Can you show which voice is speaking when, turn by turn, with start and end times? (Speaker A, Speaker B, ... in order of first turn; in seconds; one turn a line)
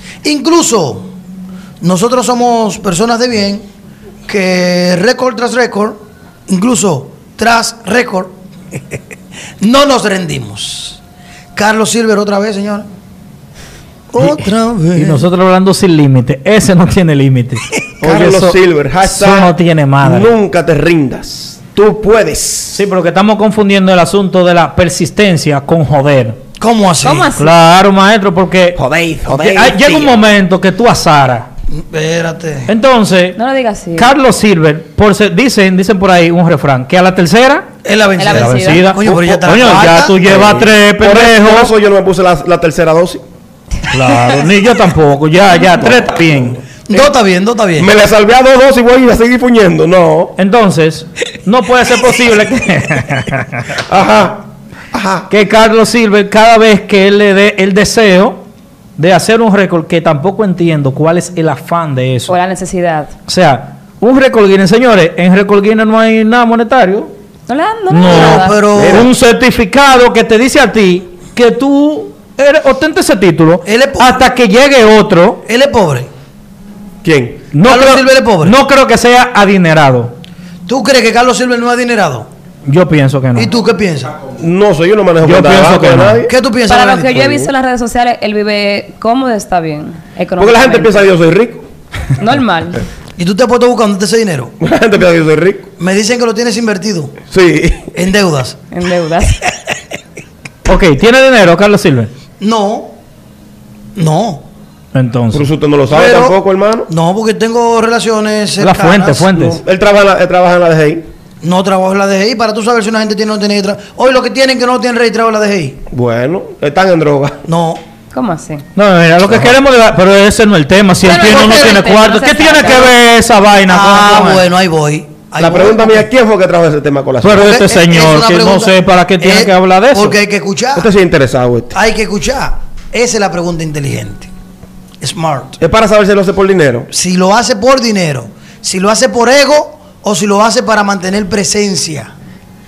Speaker A: 0.2-1.1
Speaker A: 1.8-3.6
Speaker A: 4.3-8.3
Speaker A: 9.6-11.0
Speaker A: 11.5-12.8
Speaker A: 14.1-15.2
Speaker B: 14.2-20.3
Speaker C: 18.0-22.8
Speaker B: 22.7-26.4
Speaker A: 26.6-27.3
Speaker D: 27.0-27.5
Speaker B: 27.4-31.5
Speaker C: 28.8-30.2
Speaker A: 31.7-32.7
Speaker B: 32.7-33.4
Speaker D: 33.4-34.1
Speaker B: 33.9-37.7
Speaker A: 37.8-40.3
Speaker D: 38.2-38.9
Speaker B: 38.3-41.7
Speaker C: 40.2-43.2
Speaker B: 43.9-46.6
Speaker C: 45.8-46.0
Speaker A: 46.9-47.9
Speaker C: 47.8-50.3
Speaker B: 50.4-53.8
Speaker C: 53.9-55.3
Speaker B: 55.3-58.4
Speaker B: 59.0-62.4
Speaker D: 62.3-63.1
Speaker B: 63.3-67.1
Speaker D: 67.5-68.6
Speaker B: 67.9-75.4
Speaker A: 68.0-69.1
Speaker C: 68.7-69.1
Speaker A: 73.6-74.2
Speaker A: 75.4-76.1
Speaker C: 77.0-77.4
Speaker B: 77.5-80.1
Speaker A: 77.6-78.5
Speaker A: 80.7-82.3
Speaker B: 82.7-83.5
Speaker A: 83.3-84.2
Speaker C: 84.4-86.3
Speaker B: 85.2-86.2
Speaker A: 86.3-87.3
Speaker D: 86.7-91.1
Speaker C: 90.4-91.6
Speaker D: 92.2-92.8
Speaker A: 93.2-94.5
Speaker C: 94.6-95.7
Speaker A: 95.8-97.1
Speaker C: 97.3-97.9
Speaker A: 97.9-98.6
Speaker D: 98.7-99.5
Speaker B: 100.7-102.1
Speaker A: 102.4-102.9
Speaker A: 104.0-104.4
Speaker B: 104.9-105.5
Speaker C: 105.3-106.9
Speaker A: 105.9-106.4
Speaker A: 106.9-109.3
Speaker B: 108.6-109.6
Speaker C: 109.4-111.0
Speaker A: 111.4-115.8
Speaker C: 115.9-117.4
Speaker A: 117.5-117.8
Speaker D: 118.1-118.6
Speaker B: 118.8-124.5
Speaker D: 121.0-122.9
Speaker A: 121.0-121.8
Speaker A: 123.7-126.1
Speaker C: 125.4-127.5
Speaker B: 127.2-130.2
Speaker A: 127.3-130.9
Speaker C: 130.8-131.8
Speaker A: 131.7-134.3
Speaker A: 135.0-135.6
Speaker C: 135.6-136.9
Speaker A: 136.9-142.1